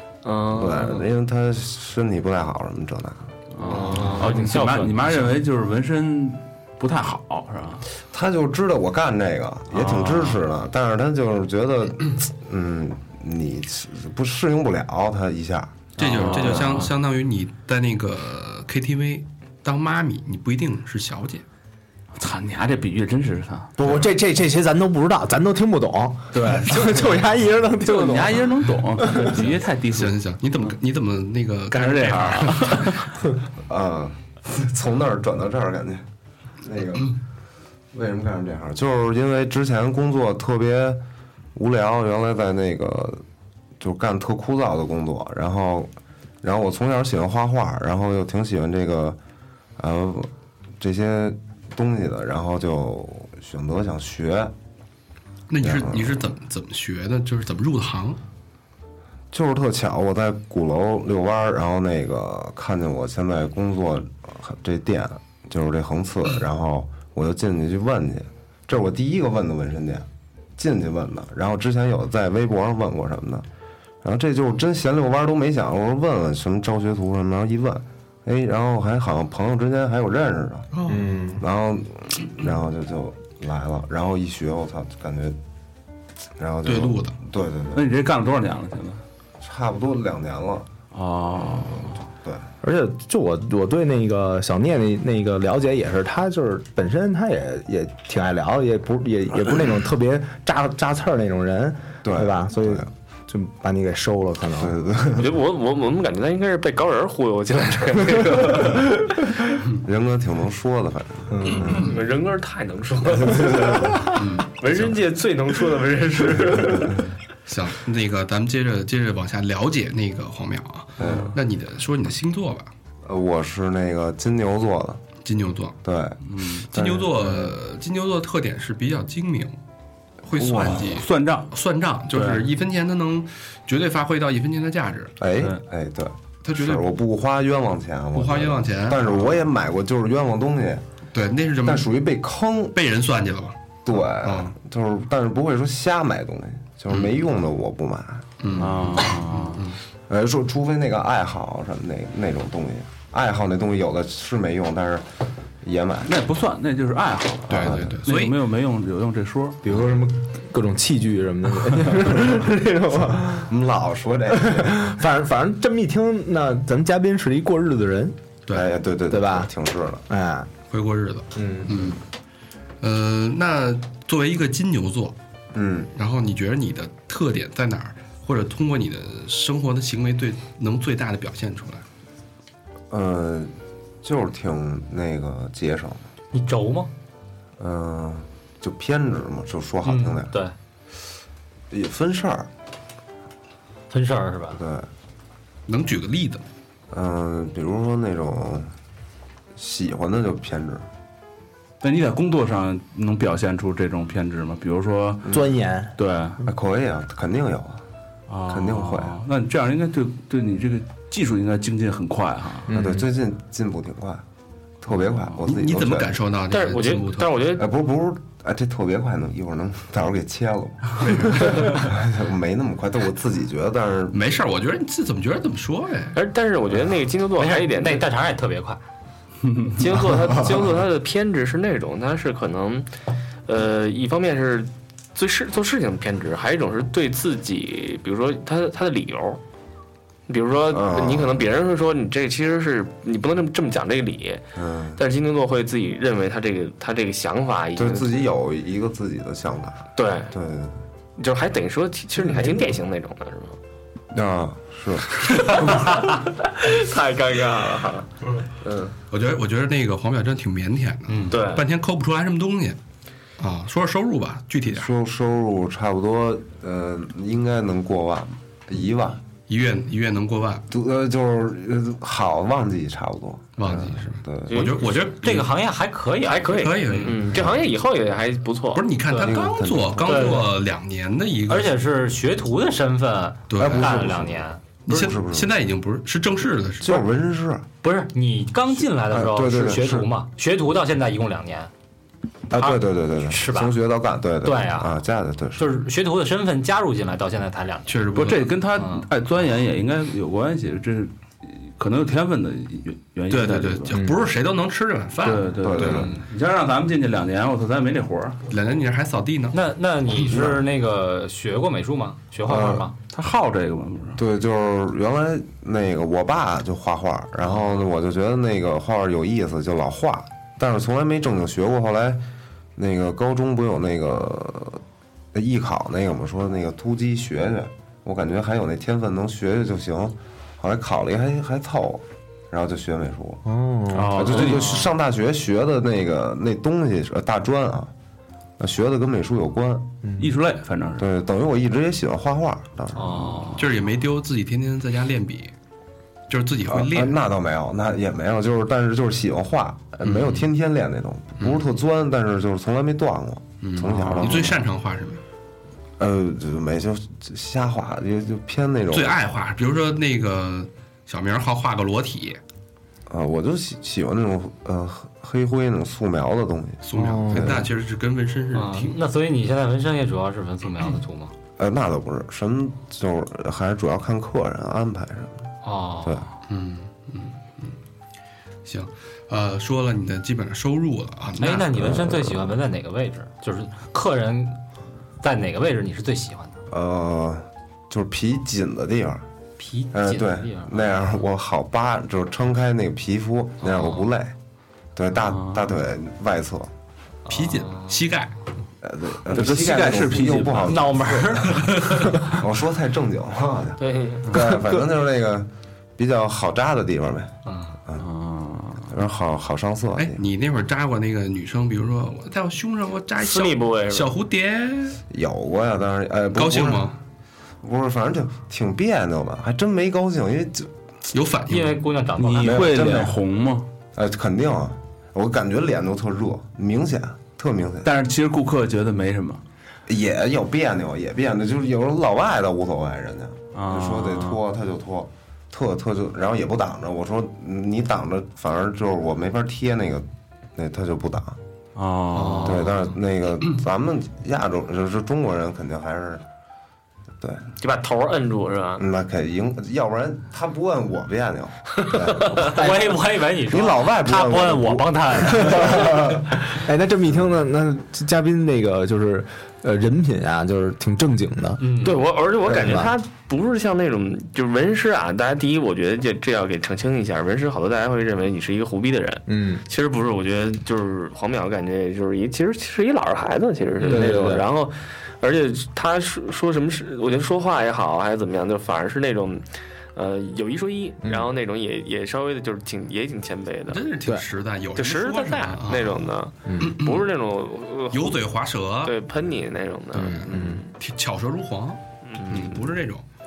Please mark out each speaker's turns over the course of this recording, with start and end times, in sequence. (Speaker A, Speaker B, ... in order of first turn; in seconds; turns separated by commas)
Speaker A: 0.2-1.1, Speaker B: 0.5-4.2, Speaker C: 3.5-7.8, Speaker A: 3.8-4.1, Speaker D: 4.0-5.0, Speaker B: 8.1-16.9, Speaker C: 9.7-10.4, Speaker C: 16.0-16.9, Speaker E: 16.0-21.4, Speaker C: 22.1-23.8, Speaker F: 23.8-29.4, Speaker C: 26.3-27.2, Speaker C: 27.8-30.1, Speaker E: 29.9-33.0, Speaker C: 31.7-33.0, Speaker B: 33.6-36.0, Speaker B: 36.6-37.2, Speaker B: 37.9-41.0, Speaker B: 41.5-43.2, Speaker B: 43.8-45.9, Speaker B: 46.4-49.2, Speaker B: 49.8-54.5, Speaker E: 55.5-58.2, Speaker B: 55.6-56.2, Speaker B: 59.3-73.4, Speaker B: 74.0-80.7, Speaker E: 80.7-81.1, Speaker F: 80.8-81.4, Speaker B: 81.3-85.4, Speaker B: 86.4-87.9, Speaker E: 86.6-87.2, Speaker C: 87.7-89.0, Speaker B: 89.4-90.7, Speaker C: 90.9-92.0, Speaker B: 91.8-92.5, Speaker F: 92.6-104.8, Speaker B: 102.0-102.9, Speaker B: 104.6-105.3, Speaker A: 105.2-109.3, Speaker B: 109.8-111.9, Speaker F: 111.3-111.8, Speaker A: 111.6-117.1, Speaker E: 114.1-114.5, Speaker E: 117.5-122.7, Speaker B: 121.0-121.3, Speaker C: 121.0-121.3, Speaker B: 123.0-125.0, Speaker E: 125.2-125.8, Speaker B: 125.8-127.6, Speaker C: 126.2-126.7, Speaker E: 126.7-129.6, Speaker E: 130.2-135.1, Speaker B: 130.3-130.9, Speaker C: 130.5-131.5, Speaker C: 132.1-132.5, Speaker B: 135.2-140.8, Speaker E: 136.4-136.9, Speaker E: 138.1-139.4, Speaker E: 141.1-141.9, Speaker B: 141.6-142.8, Speaker E: 142.7-144.5, Speaker B: 143.8-148.7, Speaker E: 148.4-149.8, Speaker C: 148.6-149.7, Speaker B: 150.1-155.1, Speaker B: 155.6-156.2, Speaker C: 156.0-159.7, Speaker B: 157.5-158.0, Speaker E: 157.5-158.4, Speaker F: 159.6-163.5, Speaker B: 163.3-164.9, Speaker F: 164.3-168.2, Speaker B: 168.5-170.0, Speaker F: 169.1-169.5, Speaker F: 170.1-170.5, Speaker E: 170.7-172.0, Speaker F: 171.3-171.9, Speaker E: 172.8-175.2, Speaker B: 175.5-175.9, Speaker E: 175.9-181.8, Speaker B: 182.9-186.0, Speaker D: 186.3-186.9, Speaker B: 187.6-190.3, Speaker D: 189.8-190.5, Speaker B: 191.7-192.5, Speaker D: 193.9-194.6, Speaker B: 194.5-194.9, Speaker E: 195.7-196.4, Speaker B: 196.9-198.7, Speaker B: 199.6-200.9, Speaker C: 201.8-205.3, Speaker B: 205.3-205.5, Speaker F: 205.3-206.0, Speaker C: 206.0-206.4, Speaker B: 206.4-207.8, Speaker C: 208.3-212.7, Speaker B: 208.5-209.2, Speaker F: 212.7-213.1, Speaker B: 212.7-214.2, Speaker B: 214.8-216.2, Speaker C: 214.9-215.4, Speaker E: 215.4-217.3, Speaker A: 216.5-217.7, Speaker B: 217.6-224.2, Speaker E: 221.0-221.8, Speaker E: 224.1-226.2, Speaker A: 226.1-228.1, Speaker D: 227.4-228.8, Speaker C: 229.5-229.7, Speaker A: 229.8-232.9, Speaker A: 233.5-239.4, Speaker A: 240.3-244.4, Speaker B: 240.7-241.4, Speaker B: 244.6-245.0, Speaker A: 245.0-248.2, Speaker B: 247.8-250.8, Speaker A: 249.9-250.3, Speaker A: 251.2-253.6, Speaker B: 254.1-255.9, Speaker A: 255.2-258.9, Speaker E: 259.1-262.8, Speaker D: 261.1-261.4, Speaker A: 261.3-261.6, Speaker E: 263.4-264.9, Speaker B: 264.7-269.2, Speaker E: 269.5-270.6, Speaker B: 270.7-274.7, Speaker E: 273.6-275.5, Speaker A: 274.5-275.1, Speaker D: 275.2-277.1, Speaker A: 276.2-278.9, Speaker E: 276.5-277.4, Speaker B: 277.3-277.6, Speaker E: 278.7-281.7, Speaker D: 279.1-279.4, Speaker B: 279.1-280.4, Speaker D: 280.0-280.5, Speaker D: 281.5-284.6, Speaker E: 283.5-284.1, Speaker B: 283.6-285.5, Speaker E: 284.9-287.1, Speaker B: 286.8-287.6, Speaker D: 287.8-291.7, Speaker B: 289.0-290.1, Speaker B: 292.5-295.8, Speaker D: 292.6-293.7, Speaker D: 294.4-295.0, Speaker D: 295.6-298.2, Speaker E: 297.9-298.5, Speaker C: 298.1-304.0, Speaker D: 298.8-299.1, Speaker E: 303.3-306.1, Speaker F: 303.9-304.3, Speaker C: 305.2-308.4, Speaker B: 305.6-306.1, Speaker E: 308.5-309.6, Speaker D: 309.5-312.9, Speaker B: 310.3-310.6, Speaker B: 312.4-312.9, Speaker C: 313.1-314.2, Speaker B: 314.2-322.2, Speaker B: 322.8-324.8, Speaker B: 325.3-333.4, Speaker F: 333.4-334.4, Speaker C: 333.9-334.9, Speaker B: 334.1-337.9, Speaker D: 334.6-334.9, Speaker B: 338.6-340.0, Speaker F: 340.0-340.3, Speaker C: 340.2-341.1, Speaker B: 341.0-343.4, Speaker D: 342.9-343.6, Speaker C: 343.3-343.6, Speaker E: 343.6-345.5, Speaker E: 346.3-347.1, Speaker B: 346.7-354.6, Speaker E: 350.0-350.4, Speaker E: 351.4-351.6, Speaker E: 353.6-355.2, Speaker C: 354.0-354.4, Speaker B: 356.0-359.1, Speaker E: 358.9-362.4, Speaker B: 363.1-367.7, Speaker E: 366.9-369.0, Speaker F: 366.9-367.6, Speaker D: 368.5-371.3, Speaker B: 371.6-375.5, Speaker D: 375.6-376.2, Speaker E: 376.5-377.8, Speaker E: 378.6-381.7, Speaker D: 381.4-384.6, Speaker B: 381.7-382.6, Speaker D: 385.2-386.5, Speaker B: 386.7-389.2, Speaker D: 389.6-391.1, Speaker B: 389.9-394.3, Speaker D: 393.6-394.1, Speaker B: 394.9-396.7, Speaker C: 395.2-395.7, Speaker D: 397.2-398.0, Speaker E: 397.3-398.3, Speaker B: 398.8-407.3, Speaker C: 399.3-400.9, Speaker D: 400.6-402.1, Speaker E: 401.4-401.8, Speaker A: 403.8-404.3, Speaker F: 404.5-404.8, Speaker D: 407.4-407.8, Speaker C: 408.0-408.9, Speaker B: 408.9-410.2, Speaker E: 410.0-415.0, Speaker A: 413.2-414.1, Speaker B: 415.1-416.9, Speaker E: 416.3-417.0, Speaker B: 417.6-420.7, Speaker E: 421.1-421.8, Speaker D: 421.5-422.8, Speaker C: 422.2-423.7, Speaker B: 422.4-423.2, Speaker B: 423.9-427.9, Speaker C: 427.8-429.4, Speaker B: 429.9-441.4, Speaker C: 433.5-434.4, Speaker C: 441.7-442.8, Speaker E: 442.1-442.7, Speaker B: 442.4-446.2, Speaker B: 447.2-447.5, Speaker A: 447.6-448.8, Speaker B: 448.8-452.7, Speaker A: 451.8-452.5, Speaker D: 452.4-456.1, Speaker F: 452.6-452.9, Speaker B: 453.4-456.2, Speaker F: 455.5-455.8, Speaker F: 456.5-461.6, Speaker D: 461.6-462.0, Speaker A: 461.8-483.8, Speaker F: 462.5-462.9, Speaker F: 469.3-469.6, Speaker F: 473.8-474.4, Speaker F: 481.0-481.3, Speaker E: 483.7-487.1, Speaker A: 484.8-488.2, Speaker F: 486.5-486.8, Speaker E: 487.9-488.9, Speaker A: 488.8-490.7, Speaker F: 489.9-490.6, Speaker E: 490.1-493.0, Speaker A: 492.1-492.7